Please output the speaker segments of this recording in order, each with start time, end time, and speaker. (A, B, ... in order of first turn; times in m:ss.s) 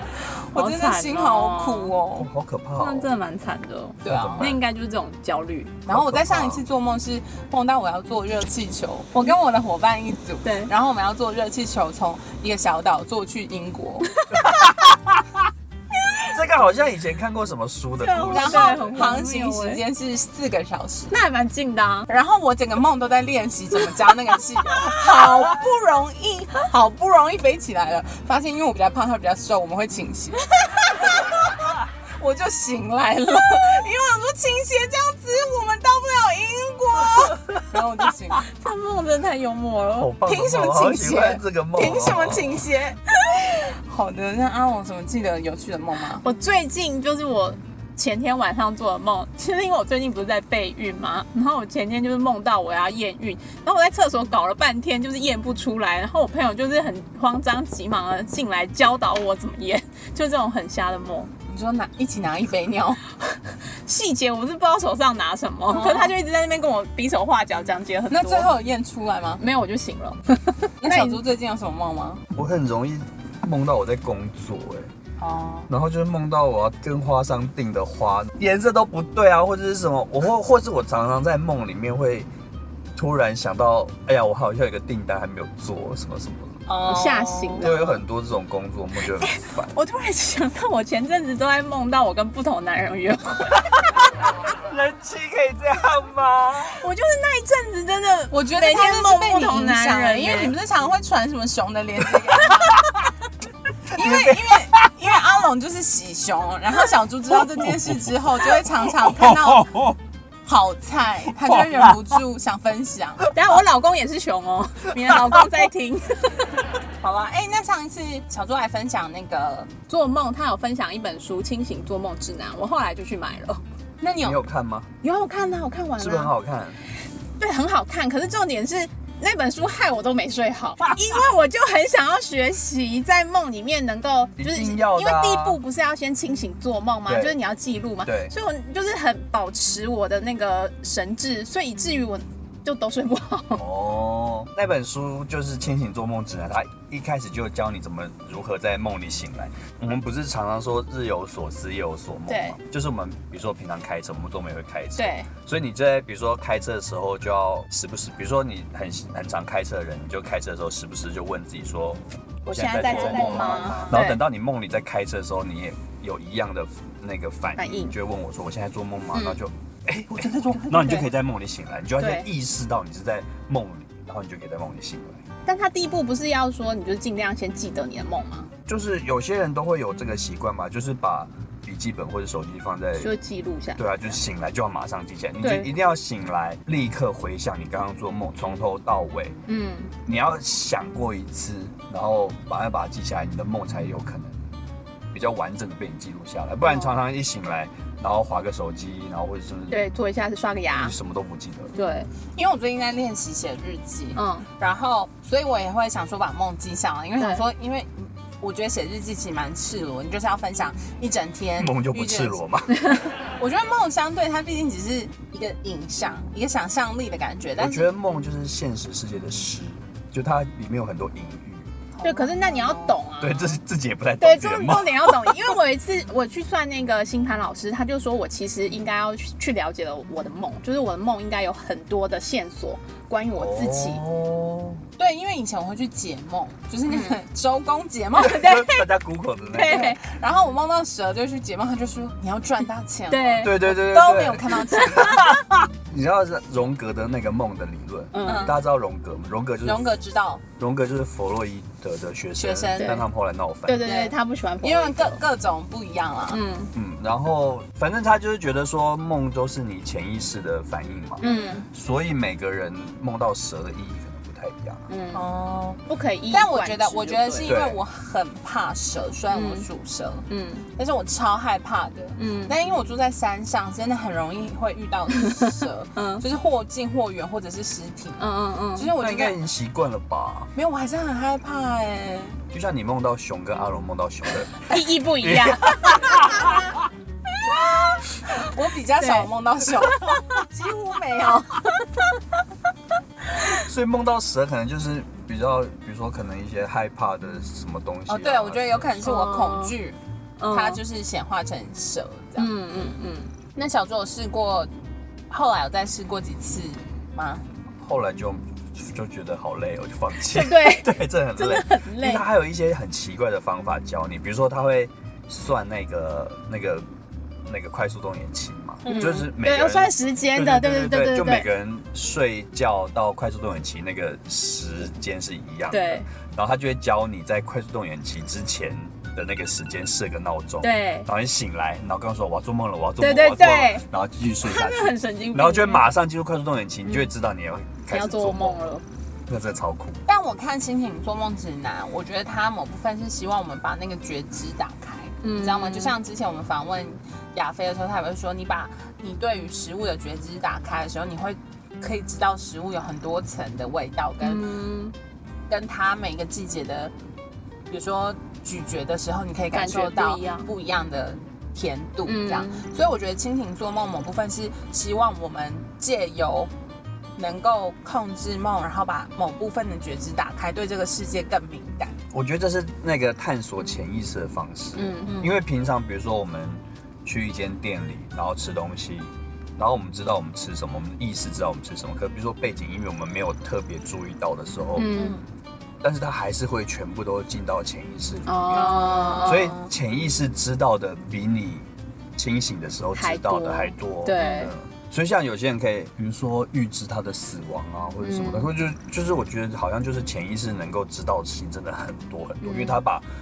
0:00.2-0:02.3 A
0:00.5-0:01.9 B
0:02.2-0:03.1 C
0:02.8-0:05.8 B
0:04.0-0:04.5 A
0:04.1-0:04.6 C
0:05.9-0:14.2 A
0:05.9-0:06.6 C
0:10.4-0:10.7 B
0:14.3-0:15.4 C
0:16.3-0:18.9 C
0:18.0-0:19.8 B
0:18.2-0:21.2 A
0:21.1-0:22.1 B
0:22.1-0:31.4 A
0:32.2-0:38.4 A
0:38.5-0:40.1 B
0:39.9-0:42.6 C
0:40.2-0:46.2 A
0:46.2-1:01.3 B
1:01.5-1:03.0 A
1:03.3-1:08.5 B
1:05.7-1:06.2 A
1:08.1-1:09.4 A
1:09.4-1:11.2 B
1:10.8-1:12.2 A
1:12.3-1:14.9 C
1:15.2-1:15.7 A
1:15.7-1:22.3 C
1:23.0-1:26.6 C
1:26.7-1:27.8 A
1:26.8-1:28.0 B
1:27.6-1:29.8 C
1:29.2-1:33.8 B
1:34.6-1:36.8 C
1:36.7-1:40.5 B
1:38.3-1:42.9 A
1:43.9-1:44.6 C
1:43.9-1:49.8 A
1:50.4-1:53.3 A
1:53.3-1:56.5 B
1:57.0-1:59.7 A
1:59.9-2:03.6 B
2:04.0-2:04.4 A
2:04.2-2:04.9 C
2:05.0-2:06.3 B
2:06.0-2:06.8 C
2:07.4-2:23.6 B
2:14.4-2:15.6 C
2:17.1-2:17.4 C
2:18.0-2:18.3 C
2:23.6-2:55.2 C
2:32.3-2:32.6 B
2:35.0-2:35.3 B
2:42.5-2:44.2 B
2:42.6-2:44.0 A
2:47.6-2:48.0 B
2:49.1-2:49.4 B
2:52.0-2:52.3 B
2:55.5-2:58.5 B
2:58.7-3:03.1 C
3:03.0-3:03.8 B
3:03.8-3:09.4 C
3:05.4-3:05.7 B
3:09.5-3:09.9 B
3:10.0-3:14.4 C
3:15.1-3:19.8 C
3:16.6-3:17.0 B
3:19.7-3:21.0 B
3:20.7-3:21.7 C
3:21.8-3:22.1 B
3:22.4-3:32.4 A
3:24.2-3:24.5 B
3:31.6-3:32.8 C
3:33.4-3:37.9 A
3:37.6-3:41.7 C
3:42.0-3:43.0 A
3:42.0-3:43.6 B
3:43.2-3:45.5 C
3:44.2-3:54.0 B
3:53.4-3:54.8 C
3:55.0-3:58.5 A
3:56.9-3:57.2 B
3:58.2-4:00.0 C
3:58.2-3:58.9 B
3:59.5-4:00.0 B
3:59.6-4:05.3 A
4:03.1-4:03.6 B
4:03.4-4:10.0 C
4:08.1-4:08.6 B
4:08.2-4:08.6 A
4:09.6-4:10.4 A
4:10.6-4:13.9 C
4:12.4-4:13.0 A
4:13.7-4:15.2 B
4:13.8-4:16.4 A
4:16.3-4:16.7 B
4:16.8-4:24.9 C
4:21.2-4:21.6 A
4:21.2-4:21.6 B
4:24.9-4:25.2 B
4:25.1-4:30.2 A
4:25.9-4:27.6 B
4:27.4-4:27.8 C
4:29.3-4:29.7 B
4:30.3-4:30.7 B
4:30.8-4:38.2 A
4:32.2-4:32.5 B
4:36.0-4:36.2 B
4:38.2-4:38.9 B
4:38.8-4:39.4 A
4:39.0-4:40.5 C
4:40.6-4:42.4 A
4:42.5-4:46.8 C
4:44.7-4:46.1 B
4:47.5-4:51.6 A
4:49.0-4:49.3 B
4:53.6-4:58.9 C
4:58.1-5:00.0 A
4:59.0-4:59.8 B
5:00.4-5:00.8 B
5:00.5-5:02.5 A
5:02.4-5:03.3 B
5:03.6-5:04.7 A
5:05.3-5:07.4 A
5:07.8-5:16.9 C
5:10.3-5:12.3 B
5:17.4-5:38.6 C
5:18.9-5:21.5 B
5:25.7-5:26.1 B
5:30.6-5:31.1 B
5:33.0-5:33.8 B
5:34.4-5:35.9 B
5:36.9-5:37.1 B
5:37.9-5:38.8 B
5:39.3-5:40.0 C
5:40.1-5:54.4 A
5:45.2-5:46.0 B
5:54.2-5:55.0 B
5:55.5-5:56.9 A
5:57.7-6:06.5 A
5:59.5-6:00.5 B
6:02.1-6:02.7 B
6:07.2-6:12.0 A
6:12.1-6:24.9 C
6:14.8-6:15.3 B
6:24.8-6:25.2 B
6:24.9-6:25.2 A
6:25.8-6:43.1 C
6:28.3-6:29.6 B
6:28.5-6:29.7 A
6:33.0-6:34.5 B
6:34.2-6:34.5 A
6:38.0-6:38.5 B
6:42.4-6:42.8 B